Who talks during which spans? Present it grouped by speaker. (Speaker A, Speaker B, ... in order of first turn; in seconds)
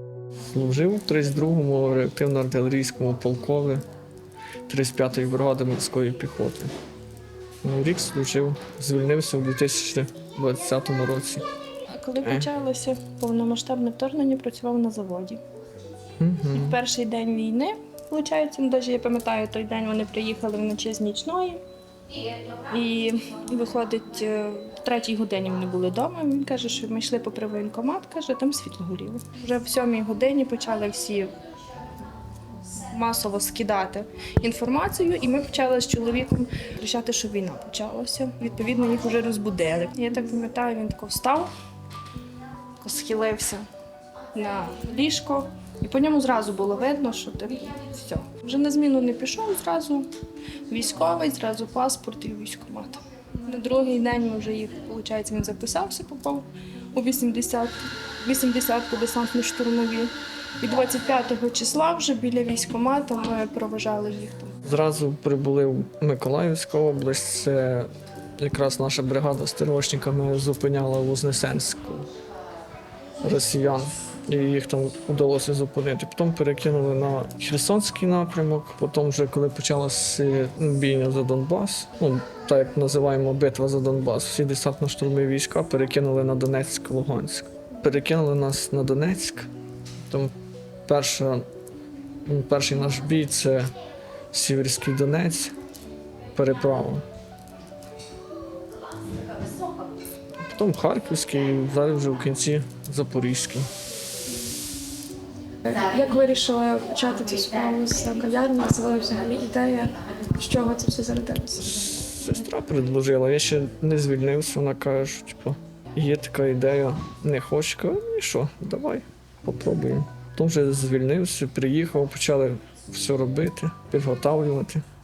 Speaker A: 0.5-3.8, 4.7-6.7, 7.6-11.4, 12.2-12.5, 16.2-16.8, 64.6-72.1, 73.2-89.5, 90.8-91.5, 92.3-93.7, 94.3-95.5, 96.3-97.0, 100.5-103.7, 111.9-124.8
Speaker B: 11.9-15.4, 16.5-21.6, 22.7-31.3, 32.9-41.5, 42.8-43.6, 44.3-50.1, 50.7-64.5
Speaker C: 105.6-111.9